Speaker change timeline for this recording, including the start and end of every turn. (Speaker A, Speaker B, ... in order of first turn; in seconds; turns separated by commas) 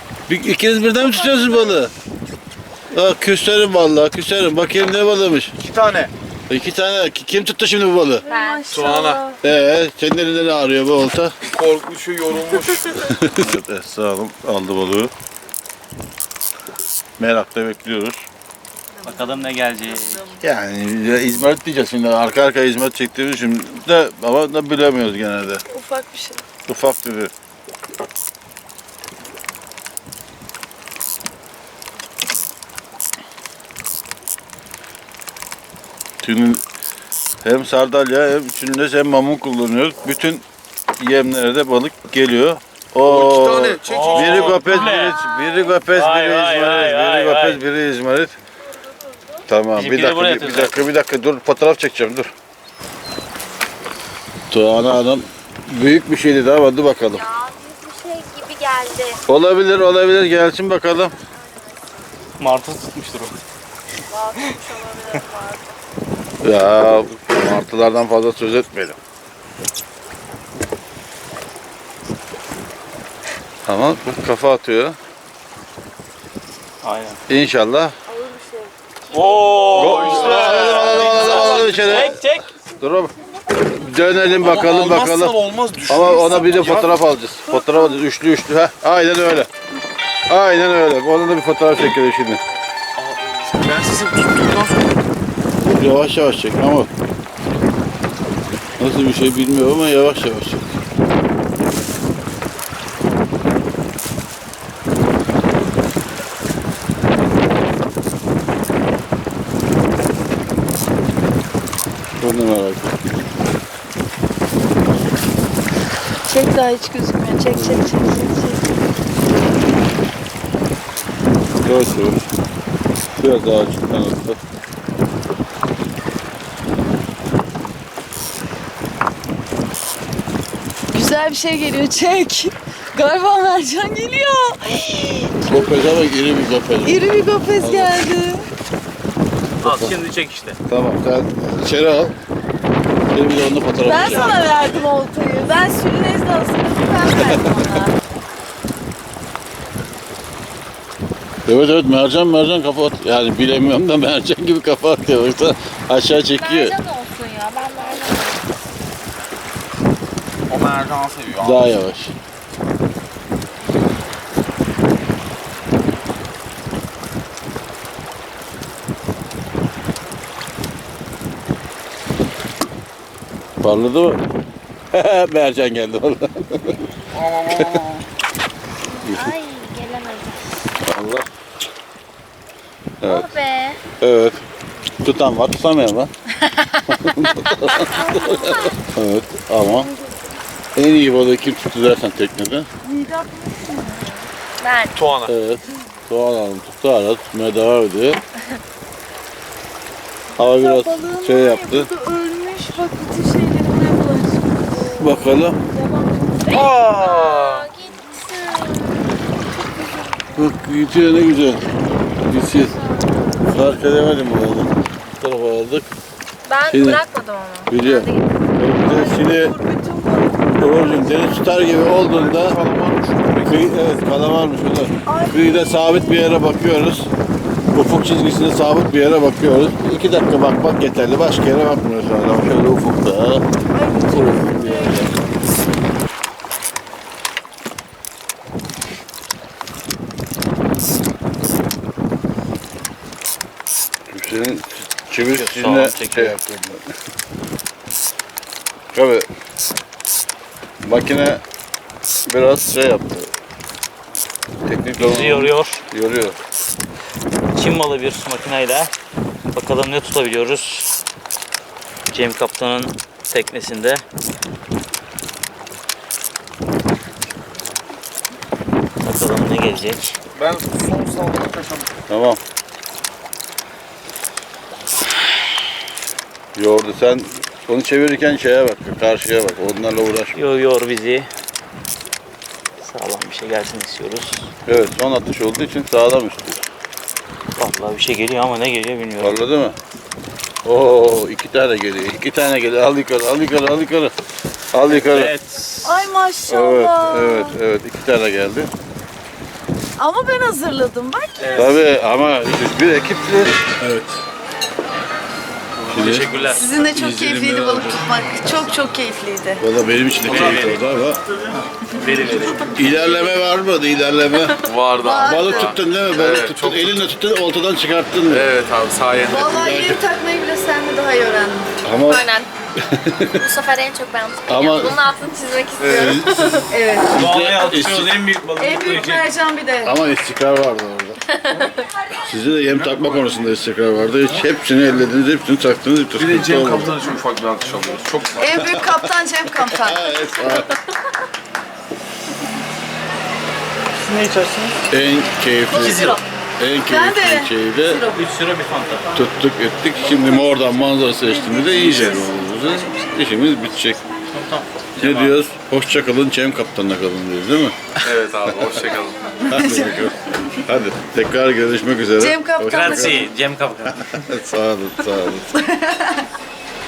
Speaker A: 0.3-1.9, Speaker B: 1.0-1.6, Speaker A: 2.9-5.5, Speaker C: 5.6-6.1, Speaker A: 6.5-8.2, Speaker D: 8.2-9.4, Speaker B: 8.2-8.6, Speaker C: 8.7-9.2, Speaker A: 9.4-11.3, Speaker C: 11.4-13.1, Speaker A: 13.0-15.1, Speaker A: 17.2-18.2, Speaker E: 19.0-20.3, Speaker A: 20.4-25.6, Speaker D: 25.7-26.4, Speaker A: 26.7-27.3, Speaker A: 36.2-36.6, Speaker A: 37.4-40.4, Speaker A: 41.0-48.3, Speaker C: 43.0-44.8, Speaker E: 43.8-45.2, Speaker E: 45.8-47.6, Speaker A: 49.5-52.3, Speaker E: 49.7-50.9, Speaker A: 54.5-57.3, Speaker B: 57.1-59.2, Speaker A: 59.3-61.1, Speaker E: 62.4-63.4, Speaker B: 64.1-65.7, Speaker A: 66.4-69.0, Speaker A: 73.7-75.0, Speaker E: 76.8-77.2, Speaker A: 77.3-77.9, Speaker D: 78.2-78.7, Speaker B: 79.1-80.3, Speaker E: 79.1-82.5, Speaker C: 79.7-82.1, Speaker A: 79.7-82.2, Speaker B: 81.2-81.7, Speaker A: 82.8-83.1, Speaker A: 83.7-85.3, Speaker C: 84.4-87.0, Speaker A: 85.9-89.5, Speaker A: 90.3-92.4, Speaker C: 93.0-95.0, Speaker A: 95.7-96.9, Speaker A: 98.8-100.7, Speaker A: 112.2-113.0, Speaker D: 116.2-118.6, Speaker A: 117.5-117.9, Speaker A: 121.6-122.2, Speaker A: 123.2-124.4, Speaker D: 130.9-135.9, Speaker A: 135.4-138.0, Speaker D: 136.8-138.5, Speaker A: 139.6-140.0, Speaker E: 139.6-140.6, Speaker A: 140.7-142.2, Speaker A: 143.1-144.4, Speaker D: 143.8-147.9, Speaker E: 144.0-144.4, Speaker A: 151.4-156.8, Speaker B: 156.3-158.4, Speaker C: 160.5-161.6, Speaker A: 161.4-162.1, Speaker A: 173.6-174.2, Speaker A: 174.9-176.8, Speaker C: 177.1-178.0, Speaker A: 177.5-177.8, Speaker B: 178.9-180.4, Speaker A: 179.0-179.3, Speaker A: 180.8-181.2, Speaker A: 183.0-183.3, Speaker B: 183.0-183.8, Speaker A: 184.0-184.4, Speaker A: 185.0-186.1, Speaker A: 186.9-189.9, Speaker D: 187.9-188.7, Speaker B: 188.1-188.7, Speaker A: 190.8-192.7, Speaker D: 192.8-194.3, Speaker B: 194.6-195.0, Speaker C: 194.9-195.3, Speaker A: 195.2-198.2, Speaker A: 200.4-201.9, Speaker D: 200.5-204.9, Speaker B: 204.8-209.1, Speaker A: 204.8-205.6, Speaker C: 206.5-207.7, Speaker D: 209.8-210.1, Speaker A: 210.3-211.7, Speaker A: 212.2-212.8, Speaker B: 212.5-213.6, Speaker A: 213.4-215.9, Speaker B: 216.4-218.3, Speaker A: 216.7-217.0, Speaker A: 217.7-219.5, Speaker D: 218.8-221.6, Speaker A: 220.4-222.6, Speaker C: 221.9-223.9, Speaker A: 223.4-227.1, Speaker D: 225.1-226.5, Speaker A: 227.7-233.4, Speaker D: 233.7-235.2, Speaker A: 234.1-235.3, Speaker A: 244.1-246.8, Speaker E: 245.2-246.4, Speaker A: 248.9-249.3, Speaker A: 250.8-251.4, Speaker A: 252.2-253.3, Speaker A: 254.6-256.4, Speaker E: 255.0-255.8, Speaker E: 257.5-258.9, Speaker E: 259.5-261.0, Speaker E: 262.1-264.0, Speaker E: 269.0-270.1, Speaker C: 270.3-271.9, Speaker A: 272.1-272.4, Speaker A: 276.5-280.4, Speaker E: 280.3-281.3, Speaker E: 282.8-284.5, Speaker A: 284.6-286.6, Speaker E: 287.6-289.4, Speaker A: 289.2-289.8, Speaker A: 290.6-294.1, Speaker A: 294.7-295.3, Speaker E: 294.8-296.1, Speaker D: 295.8-297.6, Speaker A: 296.5-298.7, Speaker D: 300.0-301.5, Speaker E: 301.4-301.8, Speaker A: 301.5-303.6, Speaker E: 303.8-304.2, Speaker E: 305.8-306.7, Speaker A: 305.9-306.3, Speaker D: 306.5-309.6, Speaker A: 306.8-308.0, Speaker A: 309.6-311.2, Speaker E: 310.2-312.9, Speaker A: 312.7-314.6, Speaker C: 314.6-317.1, Speaker D: 315.0-315.8, Speaker A: 315.2-318.5, Speaker C: 318.3-320.0, Speaker D: 319.3-321.7, Speaker A: 321.8-323.4, Speaker B: 322.0-322.5, Speaker B: 323.3-326.6, Speaker A: 324.5-325.0, Speaker C: 325.8-326.3, Speaker A: 325.9-326.5, Speaker D: 326.7-327.1, Speaker E: 327.1-329.3, Speaker A: 327.1-328.1, Speaker D: 328.6-330.0, Speaker A: 329.8-331.2, Speaker B: 331.4-331.8, Speaker A: 332.2-336.9, Speaker C: 332.7-333.3, Speaker C: 336.2-338.7, Speaker D: 338.4-340.1, Speaker A: 338.6-339.1, Speaker A: 339.7-340.8, Speaker E: 344.0-344.8, Speaker A: 344.9-348.0, Speaker D: 345.7-346.2, Speaker C: 345.8-346.2, Speaker E: 345.9-346.2, Speaker D: 346.8-348.2, Speaker E: 348.1-349.1, Speaker A: 349.1-354.0, Speaker D: 351.2-353.1, Speaker E: 354.3-355.4, Speaker A: 355.0-357.8, Speaker C: 358.0-359.3, Speaker A: 358.4-358.8, Speaker D: 359.4-360.1, Speaker A: 359.5-363.2, Speaker D: 362.2-363.3, Speaker E: 362.7-364.1, Speaker A: 364.0-365.5, Speaker D: 365.5-366.2